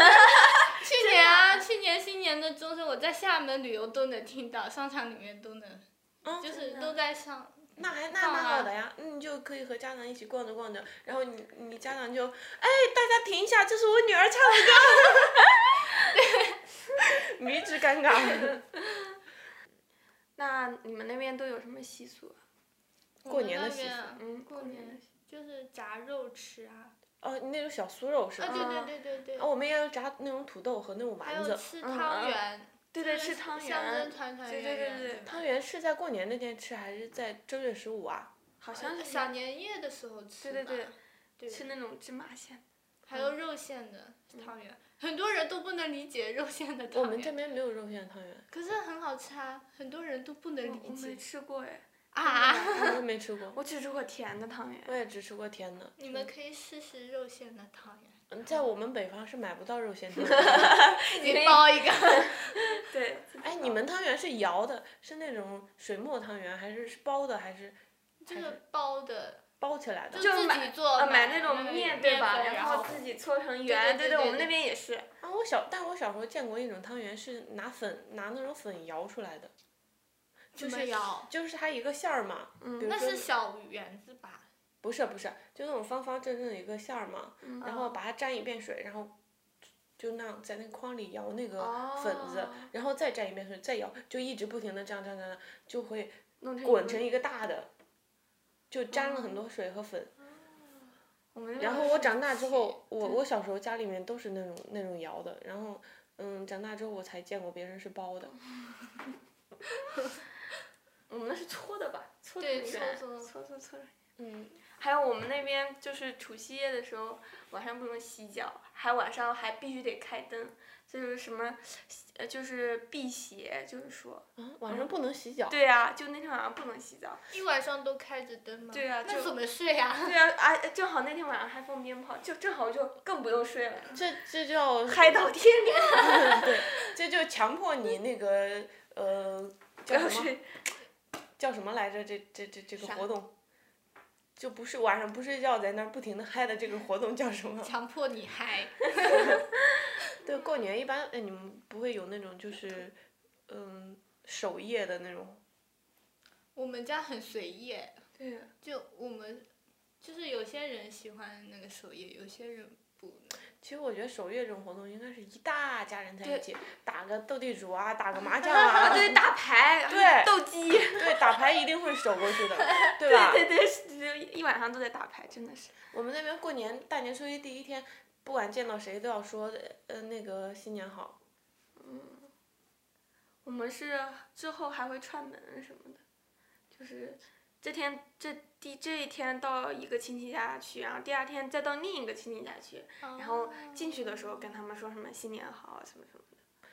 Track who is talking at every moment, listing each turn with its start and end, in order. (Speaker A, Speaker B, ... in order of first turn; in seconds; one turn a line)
Speaker A: 0.2-1.6
Speaker B: 0.8-5.8
Speaker C: 6.2-6.6
Speaker B: 6.4-8.7
Speaker A: 6.5-7.0
Speaker C: 7.8-15.4
Speaker B: 16.2-16.4
Speaker C: 17.1-18.6
Speaker A: 20.4-22.4
Speaker C: 23.2-24.1
Speaker B: 23.2-26.9
Speaker A: 24.1-25.1
Speaker C: 27.2-28.8
Speaker B: 28.4-29.5
Speaker A: 28.4-28.9
Speaker C: 29.4-31.6
Speaker B: 31.2-35.4
Speaker A: 31.8-32.4
Speaker A: 32.9-35.4
Speaker C: 35.2-38.3
Speaker A: 38.6-39.4
Speaker B: 38.7-41.7
Speaker A: 40.4-40.9
Speaker A: 41.5-43.3
Speaker B: 43.1-47.4
Speaker C: 46.9-48.5
Speaker B: 48.5-51.2
Speaker A: 50.6-52.9
Speaker B: 52.1-53.0
Speaker C: 52.8-53.6
Speaker A: 53.5-55.0
Speaker C: 54.9-56.3
Speaker B: 56.0-58.2
Speaker C: 58.3-60.8
Speaker A: 60.2-63.8
Speaker B: 61.0-62.6
Speaker C: 63.4-67.8
Speaker B: 68.2-69.4
Speaker C: 68.3-68.6
Speaker C: 69.6-70.3
Speaker B: 70.1-73.0
Speaker A: 70.2-75.1
Speaker B: 73.6-74.5
Speaker C: 75.2-79.5
Speaker B: 80.5-81.3
Speaker C: 80.6-83.3
Speaker A: 82.6-83.0
Speaker B: 82.8-84.5
Speaker C: 84.8-89.1
Speaker A: 87.4-88.0
Speaker C: 90.0-97.7
Speaker A: 91.6-92.7
Speaker A: 96.4-97.1
Speaker C: 98.7-100.1
Speaker A: 99.0-99.4
Speaker A: 101.3-102.2
Speaker C: 101.6-108.3
Speaker B: 102.0-103.2
Speaker A: 111.1-113.9
Speaker B: 112.4-113.3
Speaker C: 114.2-114.6
Speaker A: 114.6-124.9
Speaker C: 124.4-125.6
Speaker A: 125.5-127.2
Speaker B: 127.3-130.2
Speaker A: 128.7-129.4
Speaker A: 130.0-134.0
Speaker C: 133.9-135.1
Speaker A: 134.9-136.6
Speaker C: 136.0-140.4
Speaker A: 139.9-140.4
Speaker C: 141.4-143.3
Speaker A: 142.8-143.1
Speaker C: 144.4-147.7
Speaker B: 147.6-149.4
Speaker C: 150.2-153.0
Speaker C: 153.5-155.4
Speaker B: 156.6-158.0
Speaker A: 158.2-158.5
Speaker B: 158.6-159.5
Speaker B: 160.0-163.4
Speaker C: 163.6-169.2
Speaker A: 168.3-171.7
Speaker C: 169.9-170.3
Speaker C: 170.9-173.5
Speaker A: 172.2-175.8
Speaker C: 175.9-181.2
Speaker A: 181.8-182.3
Speaker A: 183.4-186.0
Speaker A: 186.7-196.4
Speaker B: 193.0-194.6